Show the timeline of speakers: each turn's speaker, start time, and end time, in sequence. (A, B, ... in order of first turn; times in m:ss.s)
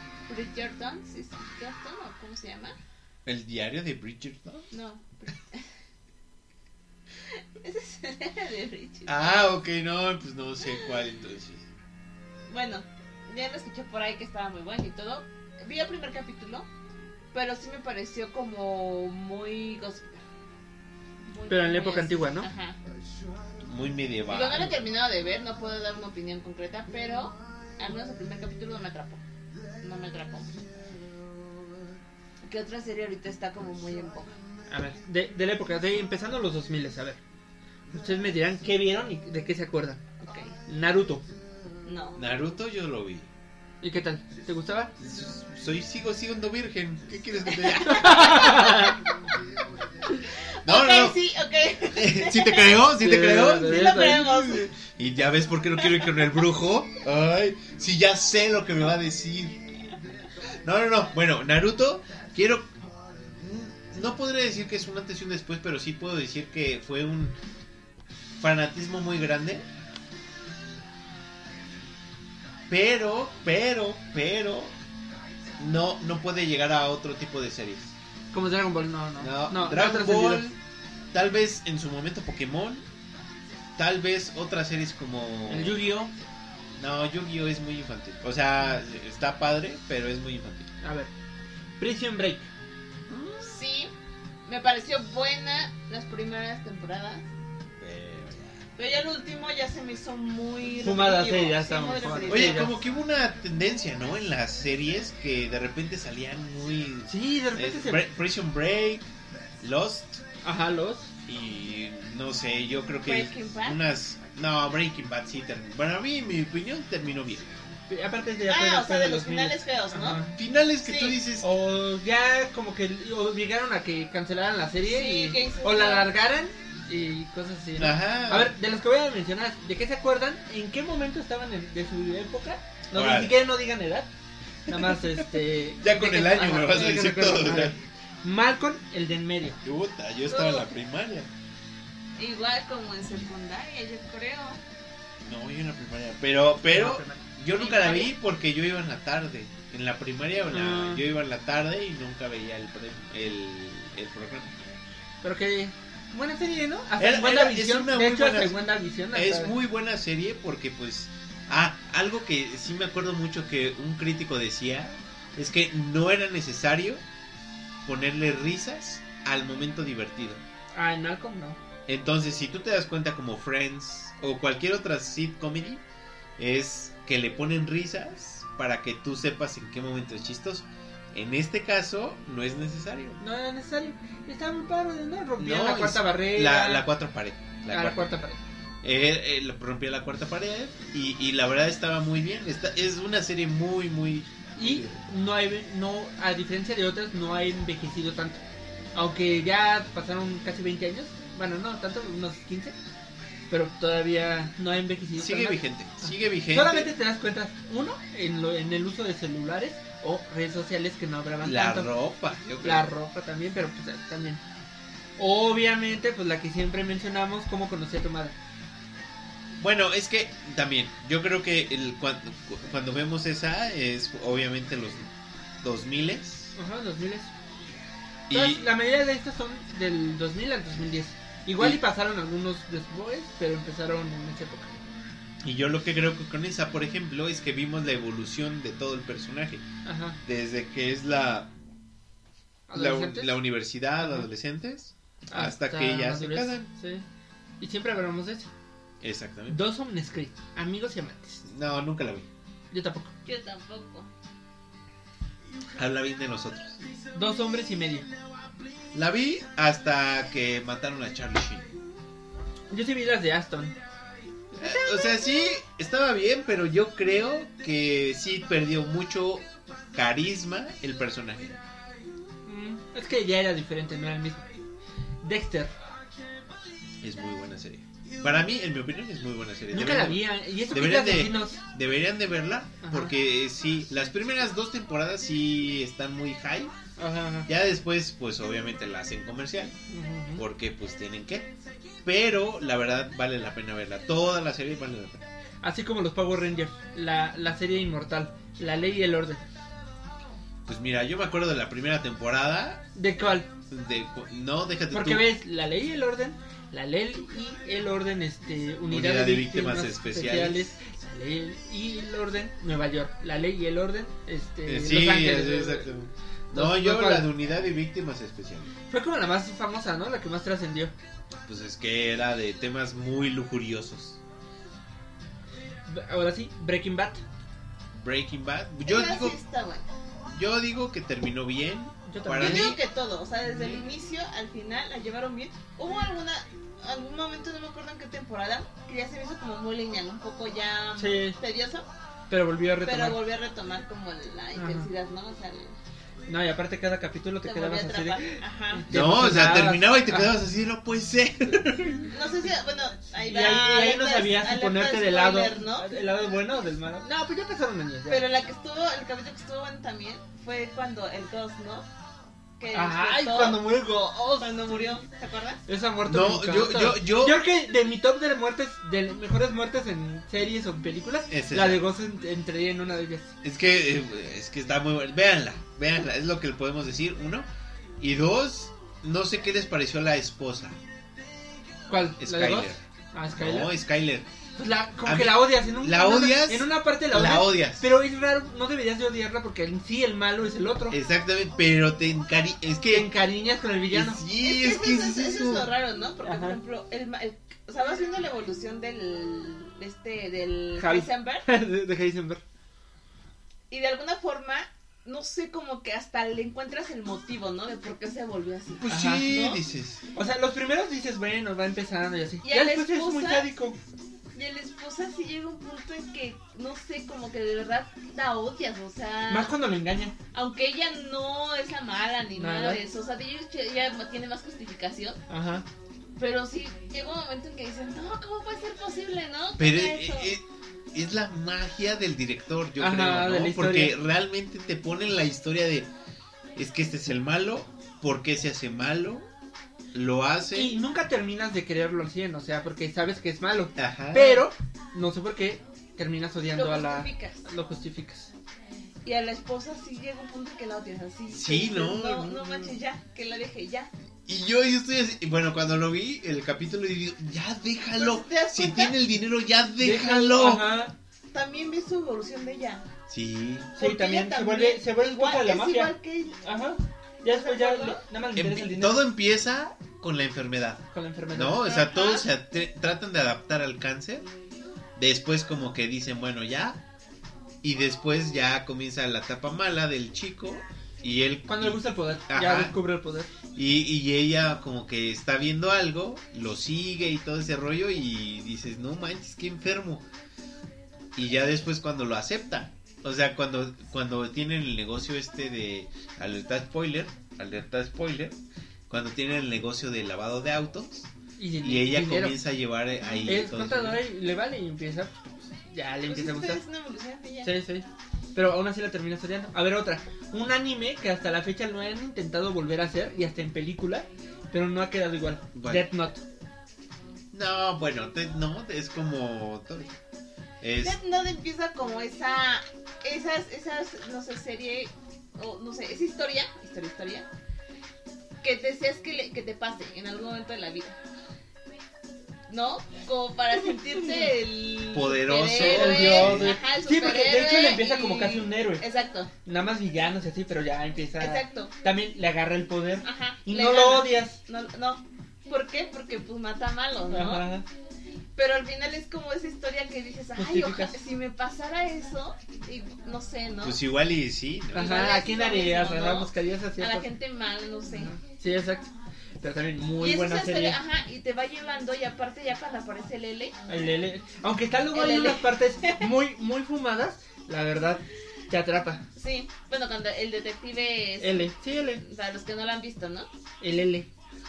0:00.3-0:02.8 A
0:03.3-0:04.7 B
0:04.7-0:05.7 A
0:07.3-0:09.2 A
0:09.1-0:11.7 B
0:12.5-0:16.7 A
0:17.3-0:20.2 A
0:21.3-0:22.8 A
0:21.5-0:22.5 C
0:23.6-0:24.8 B
0:24.3-0:29.2 A
0:29.8-0:30.7 A
0:32.4-0:34.4 A
0:34.7-0:37.2 C
0:37.9-0:40.0 C
0:40.2-0:40.6 A
0:40.7-0:41.2 C
0:41.8-0:42.3 A
0:42.2-0:43.3 B
0:43.8-0:44.9 C
0:45.0-0:48.9 B
0:47.6-0:49.0 A
0:47.9-0:49.0 C
0:50.6-0:52.8 A
0:50.6-0:51.2 B
0:51.9-0:53.9 B
0:53.0-0:54.4 C
0:53.6-0:54.7 A
0:54.4-0:59.7 B
0:55.8-0:56.1 A
1:00.6-1:02.7 B
1:03.4-1:07.4 B
1:08.4-1:09.7 B
1:12.7-1:14.8 B
1:15.6-1:18.0 B
1:18.3-1:20.6 C
1:19.2-1:20.6 B
1:21.1-1:22.8 B
1:23.8-1:25.8 B
1:25.5-1:26.1 C
1:26.8-1:30.7 B
1:30.8-1:31.1 C
1:31.8-1:32.5 C
1:33.1-1:33.4 B
1:33.4-1:33.9 A
1:34.5-1:37.3 A
1:37.8-1:38.7 B
1:38.8-1:42.7 A
1:40.8-1:42.8 C
1:42.3-1:49.1 B
1:47.1-1:48.1 C
1:49.6-1:50.2 B
1:50.4-1:51.1 C
1:51.2-1:57.5 B
1:53.1-1:53.8 A
1:57.9-2:00.3 C
1:58.5-2:00.3 A
2:00.4-2:01.5 B
2:00.8-2:01.2 A
2:01.4-2:14.1 C
2:04.8-2:06.1 A
2:07.8-2:08.5 B
2:12.9-2:13.4 B
2:14.7-2:19.6 C
2:14.7-2:17.8 B
2:19.6-2:21.3 B
2:20.3-2:20.7 A
2:22.2-2:24.6 A
2:25.2-2:34.6 B
2:26.7-2:27.3 C
2:27.5-2:28.1 A
2:30.5-2:31.0 C
2:35.2-2:39.5 C
2:37.0-2:38.6 B
2:39.1-2:47.0 B
2:47.8-2:50.4 B
2:50.7-2:51.6 C
2:51.9-2:55.8 B
2:56.4-3:03.2 B
3:03.2-3:06.9 C
3:05.4-3:08.1 B
3:07.7-3:08.4 C
3:08.8-3:15.0 B
3:14.6-3:18.4 C
3:18.9-3:22.8 C
3:23.5-3:31.9 C
3:25.2-3:26.9 B
3:31.4-3:32.9 B
3:32.6-3:34.4 C
3:35.2-3:38.4 C
3:39.6-3:45.1 B
3:45.6-3:46.5 B
3:46.6-3:47.3 C
3:48.3-3:48.7 B
3:48.3-3:54.7 C
3:55.4-3:59.7 B
3:59.8-4:00.2 C
4:00.2-4:01.5 B
4:02.7-4:03.4 C
4:02.7-4:06.7 B
4:04.0-4:04.3 C
4:05.3-4:07.0 C
4:07.6-4:08.5 C
4:09.0-4:09.6 B
4:09.5-4:11.4 C
4:11.4-4:12.3 B
4:12.7-4:13.1 C
4:13.2-4:14.1 A
4:15.8-4:16.8 B
4:17.1-4:18.1 C
4:18.9-4:21.8 B
4:22.7-4:23.8 C
4:24.6-4:25.1 C
4:24.6-4:31.6 B
4:32.4-4:34.5 C
4:35.2-4:35.7 C
4:37.0-4:46.7 B
4:39.7-4:41.6 C
4:42.8-4:43.1 C
4:47.0-4:47.5 C
4:47.5-4:49.8 B
4:49.9-4:50.4 C
4:50.4-4:51.5 B
4:52.0-4:55.2 B
4:55.6-4:59.4 C
5:00.7-5:02.8 B
5:03.0-5:03.5 C
5:03.7-5:05.3 B
5:04.9-5:15.9 C
5:08.9-5:10.8 B
5:14.6-5:18.7 B
5:16.5-5:17.3 C
5:18.9-5:20.9 C
5:21.5-5:24.2 B
5:25.9-5:27.2 C
5:27.9-5:29.4 B
5:28.8-5:29.9 A
5:30.3-5:32.8 B
5:32.1-5:32.8 C
5:32.4-5:41.9 A
5:41.0-5:41.4 C
5:42.3-5:43.2 C
5:42.8-5:45.8 A
5:44.6-5:44.9 C
5:46.3-5:50.3 C
5:47.4-5:48.9 A
5:48.9-5:52.1 B
5:52.1-5:55.9 A
5:53.2-5:58.2 C
5:58.1-6:01.9 A
6:02.6-6:03.7 A
6:02.7-6:04.6 C
6:04.4-6:05.6 A
6:05.7-6:13.3 C
6:06.1-6:07.4 B
6:11.3-6:11.9 B
6:13.4-6:17.5 B
6:18.0-6:20.8 B
6:21.9-6:23.7 C
6:22.2-6:22.8 B
6:23.4-6:24.3 B
6:24.6-6:31.0 C
6:25.0-6:27.9 B
6:30.9-6:33.1 B
6:32.9-6:34.2 C
6:33.9-6:35.7 B
6:34.3-6:41.4 A
6:36.2-6:36.6 C
6:40.8-6:42.4 C
6:43.7-6:49.6 A
6:48.8-6:50.0 B
6:48.9-6:49.3 C
6:50.1-6:53.8 C
6:52.4-6:53.5 A
6:54.4-6:59.5 A
6:59.3-7:00.2 C
7:00.3-7:05.2 A
7:02.4-7:02.8 C
7:05.3-7:05.6 C
7:06.2-7:10.4 A
7:09.6-7:15.9 B
7:12.8-7:13.9 C
7:16.6-7:19.3 B
7:19.9-7:20.8 B
7:20.5-7:28.3 C
7:23.8-7:24.5 B
7:26.6-7:27.4 A
7:29.0-7:33.9 A
7:31.3-7:32.6 B
7:34.3-7:40.7 B
7:38.0-7:39.0 A
7:39.8-7:40.9 C
7:41.3-7:42.9 A
7:43.1-7:43.7 B
7:43.8-7:46.5 A
7:43.8-7:49.0 C
7:47.2-7:48.0 A
7:48.4-7:54.3 B
7:50.9-7:51.7 C
7:51.7-7:52.3 A
7:55.0-7:56.8 B
7:57.6-8:02.8 B
8:01.5-8:03.3 C
8:03.5-8:10.0 B
8:11.2-8:18.4 B
8:18.9-8:24.0 B
8:21.4-8:22.4 C
8:23.0-8:23.4 A
8:23.3-8:26.6 C
8:26.1-8:27.6 A
8:27.4-8:36.2 C
8:35.5-8:35.9 B
8:37.3-8:40.0 B
8:40.6-8:41.0 B
8:40.8-8:47.3 A
8:48.4-8:51.0 A
8:52.5-8:59.3 A
8:54.9-8:56.6 B
8:55.5-8:58.8 C
8:59.4-9:04.4 C
9:01.2-9:01.7 A
9:03.0-9:07.5 A
9:07.1-9:07.6 C
9:08.4-9:13.8 A
9:10.4-9:11.0 C
9:13.6-9:15.0 B
9:14.7-9:17.1 C
9:14.8-9:18.1 A
9:18.0-9:18.9 C
9:19.4-9:20.8 C
9:20.0-9:23.6 A
9:23.7-9:29.0 C
9:24.9-9:26.1 A
9:29.2-9:33.3 A
9:31.2-9:32.0 C
9:33.6-9:34.1 C